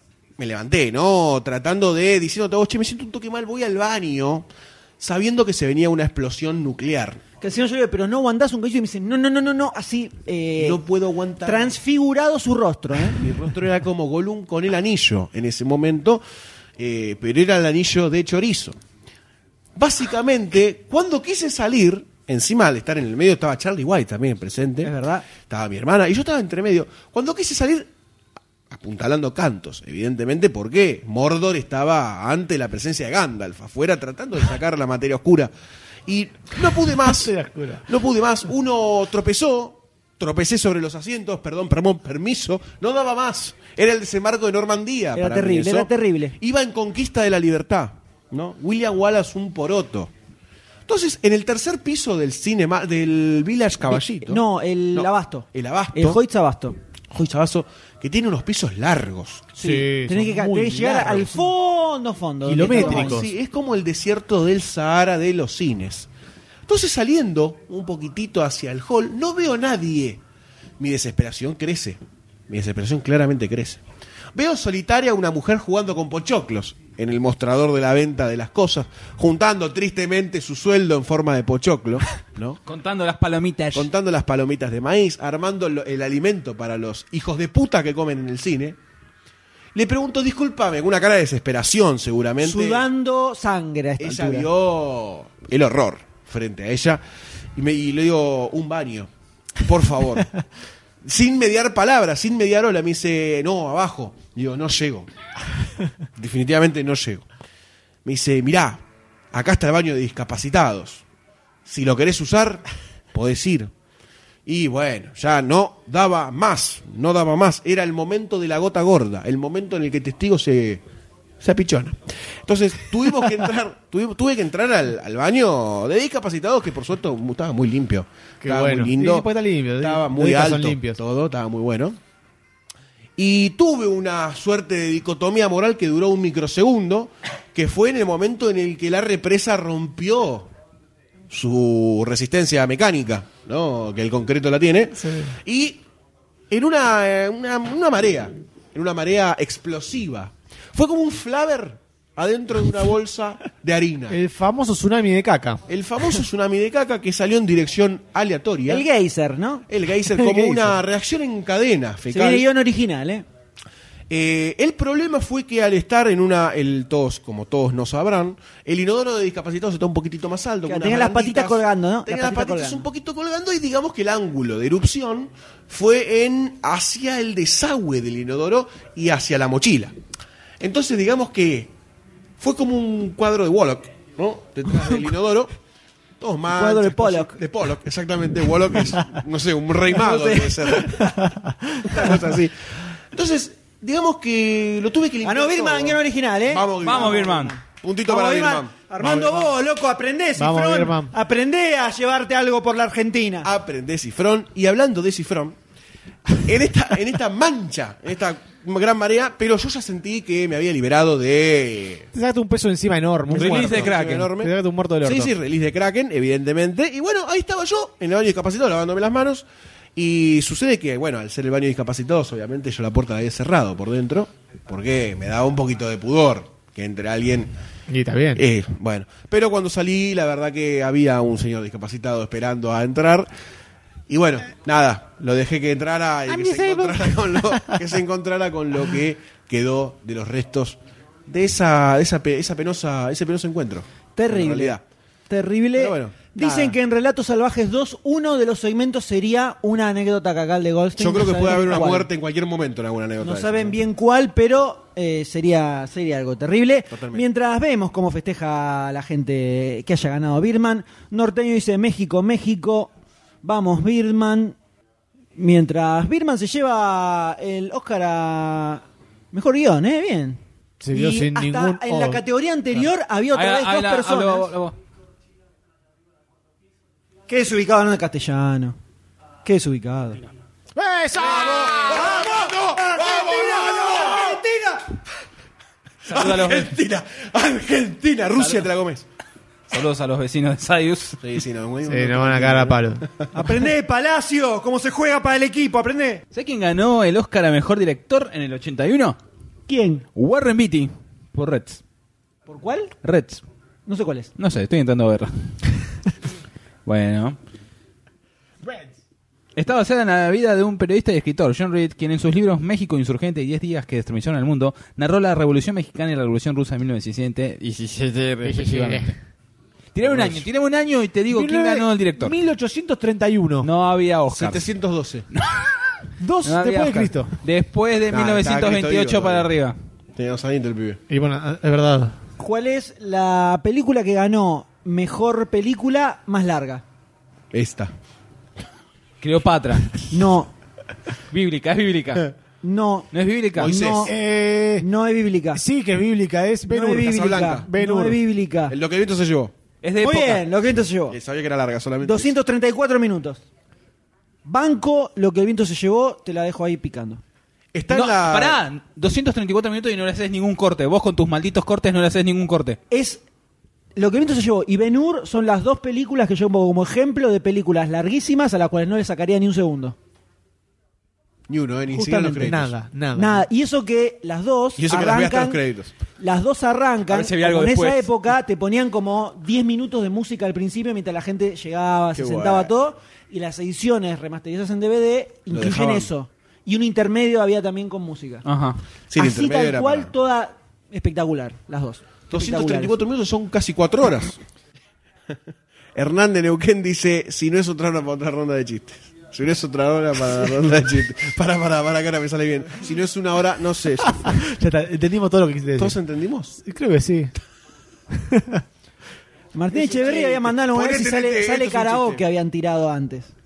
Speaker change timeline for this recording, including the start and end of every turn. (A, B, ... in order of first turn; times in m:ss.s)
0:00.4-0:04.5 A
0:05.0-0:07.2 A
0:07.4-0:10.8 B
0:10.6-0:11.8 A
0:11.4-0:13.2 B
0:13.1-0:16.2 A
0:16.8-0:18.8 A
0:19.8-0:27.9 A
0:24.8-0:25.3 B
0:28.7-0:35.5 A
0:36.1-0:50.1 A
0:37.0-0:37.8 C
0:45.1-0:46.4 B
0:50.9-0:54.4 A
0:54.2-0:56.8 B
0:54.9-0:56.2 A
0:57.1-0:59.5 A
0:59.5-1:03.2 B
0:59.6-1:01.4 C
1:02.4-1:03.3 C
1:02.6-1:06.1 A
1:06.7-1:10.2 A
1:10.8-1:13.8 A
1:14.3-1:22.6 A
1:22.6-1:23.9 D
1:23.7-1:28.8 A
1:29.7-1:32.8 A
1:32.4-1:34.5 B
1:34.0-1:37.0 A
1:37.6-1:39.1 A
1:39.6-1:40.3 A
1:41.0-1:45.1 A
1:46.2-1:47.2 A
1:48.0-1:48.8 A
1:49.3-1:51.0 A
1:51.6-1:53.7 A
1:54.4-2:00.8 A
2:01.4-2:12.0 A
2:08.4-2:11.0 C
2:13.2-2:20.5 A
2:21.3-2:25.8 A
2:25.0-2:25.3 C
2:26.5-2:34.2 A
2:34.1-2:35.6 C
2:35.7-2:38.8 A
2:38.7-2:39.7 B
2:39.7-2:42.5 A
2:40.2-2:40.8 C
2:42.1-2:43.2 B
2:44.1-2:59.9 A
2:50.6-2:52.8 B
3:00.6-3:01.7 A
3:02.4-3:05.5 A
3:06.2-3:11.0 A
3:06.5-3:07.4 B
3:09.9-3:11.2 B
3:11.2-3:12.0 C
3:11.8-3:19.5 A
3:15.2-3:23.5 B
3:16.8-3:17.6 D
3:20.4-3:21.1 C
3:23.4-3:25.6 A
3:26.3-3:32.1 A
3:32.1-3:35.3 C
3:33.3-3:47.5 A
3:33.3-3:34.3 D
3:47.9-3:48.4 C
3:48.3-3:53.3 A
3:54.1-4:04.8 A
3:56.3-3:57.8 C
4:04.2-4:12.1 B
4:05.8-4:06.2 A
4:06.4-4:06.7 C
4:11.0-4:13.8 A
4:13.2-4:22.9 B
4:16.9-4:17.2 A
4:23.4-4:24.6 B
4:25.4-4:30.4 B
4:30.8-4:32.2 C
4:30.9-4:34.5 B
4:33.3-4:34.7 D
4:37.3-4:38.8 B
4:39.4-4:40.2 B
4:40.7-4:42.2 C
4:41.3-4:44.4 A
4:41.6-4:44.8 B
4:46.0-4:46.8 D
4:46.1-4:49.0 A
4:48.3-4:48.7 D
4:49.7-4:51.2 D
4:51.2-4:53.2 A
4:51.8-4:53.0 C
4:53.3-4:56.2 B
4:56.3-4:59.2 D
4:59.7-5:00.0 B
5:00.2-5:01.8 D
5:02.5-5:02.9 B
5:03.0-5:03.4 D
5:03.8-5:04.3 B
5:04.4-5:05.3 D
5:06.8-5:07.4 D
5:09.6-5:19.1 D
5:18.4-5:19.1 C
5:19.9-5:22.3 D
5:20.0-5:20.4 A
5:21.3-5:23.7 C
5:23.6-5:24.6 D
5:24.3-5:25.3 A
5:25.3-5:29.7 D
5:26.2-5:27.3 C
5:28.1-5:29.5 A
5:30.2-5:31.0 A
5:31.1-5:32.1 C
5:32.4-5:36.8 B
5:37.5-5:37.9 A
5:39.2-5:40.0 D
5:40.1-5:40.5 B
5:41.3-5:42.3 D
5:42.6-5:44.1 B
5:43.1-5:43.9 D
5:43.6-5:44.1 A
5:44.0-5:44.9 C
5:44.8-5:45.6 B
5:45.5-5:48.2 C
5:46.7-5:48.7 B
5:47.0-5:47.7 A
5:48.7-5:49.5 A
5:49.8-5:50.4 D
5:50.0-5:51.2 B
5:51.1-5:52.3 A
5:52.0-5:53.4 B
5:54.4-5:57.2 B
5:57.7-5:58.6 A
5:57.9-6:02.8 D
6:02.9-6:03.2 B
6:04.0-6:10.0 B
6:11.5-6:12.7 A
6:11.9-6:12.5 B
6:12.1-6:13.4 C
6:13.1-6:15.6 B
6:14.8-6:15.9 A
6:16.2-6:28.4 B
6:17.1-6:18.1 D
6:22.1-6:22.7 A
6:25.5-6:26.1 A
6:28.4-6:28.8 D
6:29.1-6:30.1 A
6:29.2-6:33.0 B
6:32.3-6:34.4 A
6:36.0-6:44.4 A
6:44.1-6:46.0 C
6:45.8-6:46.6 A
6:46.6-6:47.3 C
6:48.1-6:48.6 C
6:49.5-6:53.3 B
6:49.7-6:52.2 A